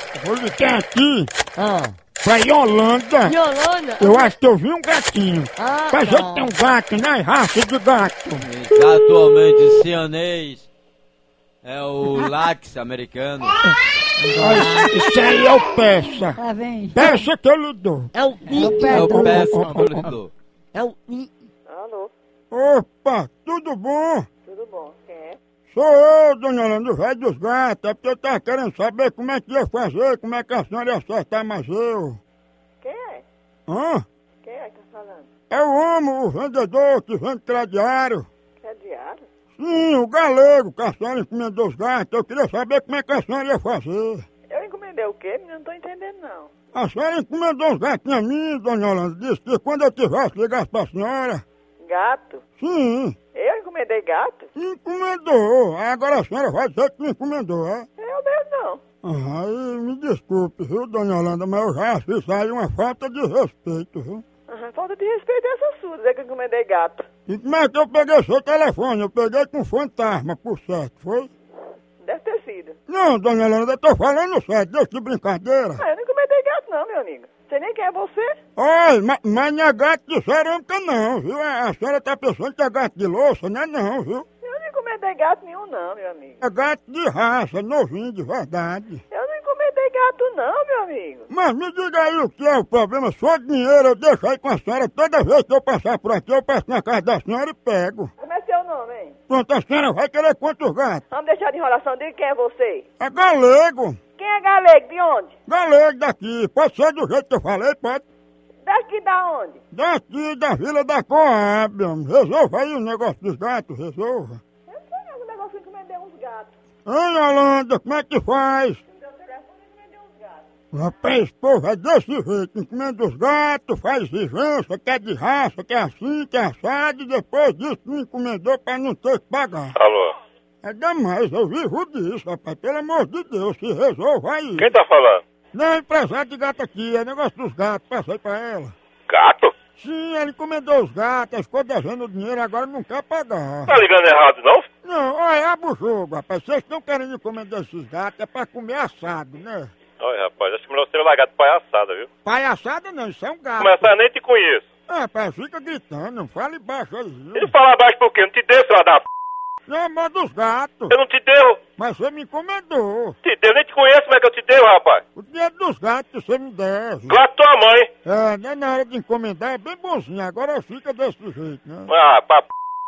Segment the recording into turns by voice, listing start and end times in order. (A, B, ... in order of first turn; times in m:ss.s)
0:00.1-0:01.3 A
0:01.6-0:02.0 B
0:02.2-0:03.4 A
0:03.2-0:04.3 B
0:04.0-0:08.5 A
0:05.6-0:06.5 B
0:08.4-0:10.7 C
0:11.6-0:13.6 C
0:14.2-0:15.0 D
0:14.4-0:16.4 A
0:16.4-0:17.2 D
0:16.9-0:18.1 A
0:18.1-0:19.1 B
0:18.5-0:20.0 D
0:18.9-0:20.3 C
0:19.1-0:20.0 A
0:20.7-0:21.3 B
0:21.7-0:22.1 E
0:22.5-0:24.3 A
0:24.4-0:25.4 E
0:25.7-0:32.2 A
0:32.8-0:33.2 E
0:33.7-0:34.0 A
0:34.4-0:35.3 E
0:35.5-0:38.3 A
0:38.6-0:39.2 E
0:39.6-0:44.2 A
0:44.5-0:46.5 E
0:46.7-0:51.4 A
0:51.8-0:52.4 E
0:52.6-0:53.2 A
0:53.3-0:54.5 E
0:54.6-0:57.9 A
0:58.0-0:58.8 E
0:59.0-1:04.2 A
1:04.5-1:07.1 E
1:07.3-1:11.3 A
1:12.0-1:12.8 E
1:12.9-1:15.8 A
1:15.8-1:18.4 E
1:18.6-1:24.3 A
1:24.4-1:26.4 E
1:26.4-1:29.0 A
1:29.1-1:31.3 E
1:31.3-1:38.1 A
1:38.2-1:39.2 E
1:39.3-1:41.0 A
1:41.1-1:42.8 E
1:43.0-1:44.0 A
1:44.2-1:45.3 E
1:45.5-1:48.0 A
1:48.6-1:49.6 E
1:49.7-1:54.4 A
1:54.7-1:56.5 E
1:56.9-1:58.8 A
1:58.9-2:00.4 E
2:00.7-2:09.8 A
2:09.8-2:10.2 F
2:10.6-2:14.7 A
2:14.6-2:15.2 F
2:15.5-2:18.7 A
2:19.1-2:19.5 F
2:19.8-2:23.8 A
2:23.7-2:24.7 F
2:24.8-2:29.7 A
2:30.0-2:32.1 F
2:32.2-2:33.9 A
2:33.6-2:34.7 F
2:34.9-2:37.5 A
2:37.4-2:39.1 F
2:39.7-2:41.0 A
2:40.9-2:41.6 F
2:41.8-2:43.2 A
2:43.2-2:45.0 F
2:45.2-2:47.2 A
2:47.1-2:47.9 F
2:48.0-2:51.9 A
2:51.9-2:52.5 F